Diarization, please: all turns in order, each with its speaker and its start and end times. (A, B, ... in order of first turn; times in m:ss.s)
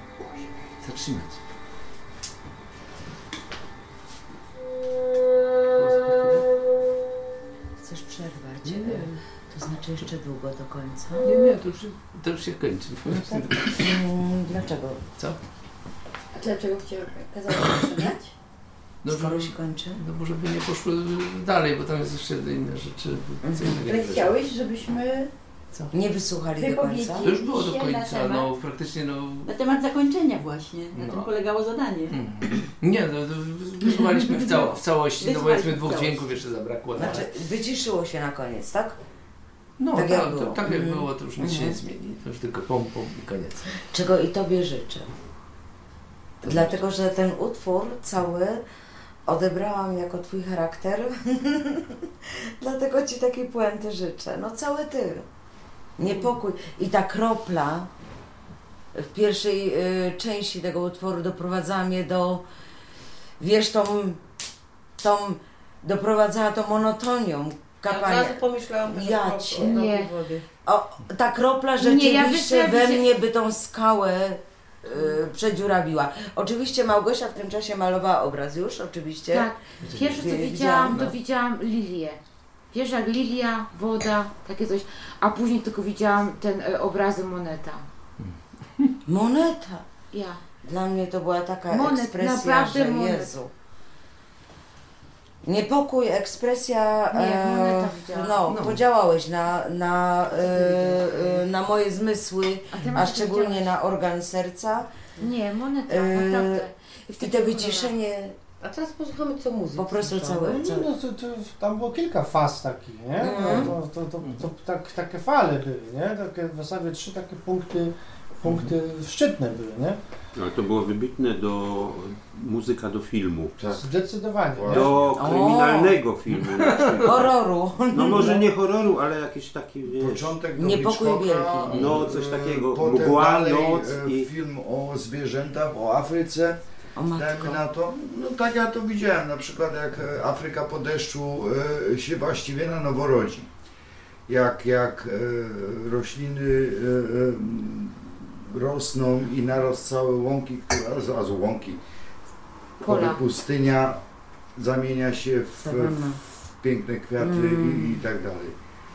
0:00.2-0:01.4 A
0:05.8-0:06.4 A
0:07.8-0:11.2 B
0:08.6-0:09.2 A
0:11.2-0:14.0 A
0:11.3-0:11.6 C
0:13.7-0:15.0 B
0:16.4-0:18.3 D
0:19.0-0:24.3 A
0:19.0-0:20.0 B
0:23.4-0:23.8 B
0:23.6-0:25.9 D
0:25.9-0:27.3 B
0:26.6-0:28.5 D
0:27.2-0:29.5 A
0:29.5-0:32.2 D
0:30.9-0:31.3 A
0:32.1-0:37.3 A
0:34.4-0:34.6 D
0:35.2-0:36.4 D
0:37.0-0:39.0 B
0:39.8-0:43.7 A
0:39.9-0:41.8 B
0:43.9-0:45.1 B
0:46.4-0:46.8 A
0:46.4-0:48.6 B
0:49.3-0:55.3 B
0:56.0-0:57.9 B
0:58.9-1:02.4 B
1:03.4-1:04.2 B
1:05.0-1:09.9 B
1:07.8-1:10.4 C
1:09.6-1:10.1 E
1:10.6-1:21.0 B
1:11.8-1:13.1 E
1:19.3-1:22.2 E
1:19.8-1:20.2 A
1:22.7-1:27.8 E
1:28.2-1:28.9 A
1:29.1-1:29.9 B
1:30.1-1:30.4 E
1:30.6-1:33.5 B
1:31.7-1:33.3 E
1:35.4-1:44.9 B
1:37.1-1:38.4 E
1:38.5-1:38.8 A
1:40.3-1:41.4 C
1:42.7-1:43.6 E
1:45.2-1:47.9 E
1:45.9-1:46.7 B
1:47.2-1:48.4 B
1:48.6-1:50.6 C
1:49.8-1:50.9 B
1:50.5-2:00.0 F
1:53.2-1:53.8 B
2:00.4-2:03.6 G
2:03.6-2:05.0 H
2:03.8-2:05.0 F
2:04.7-2:07.3 G
2:05.1-2:06.0 B
2:06.6-2:06.9 A
2:07.0-2:08.4 B
2:07.9-2:10.4 G
2:10.0-2:16.6 H
2:10.6-2:12.0 B
2:11.7-2:14.3 G
2:17.0-2:17.6 B
2:17.1-2:23.5 H
2:24.3-2:31.8 H
2:32.8-2:33.2 E
2:32.8-2:34.0 H
2:34.6-2:38.5 H
2:35.6-2:36.2 B
2:37.2-2:38.0 B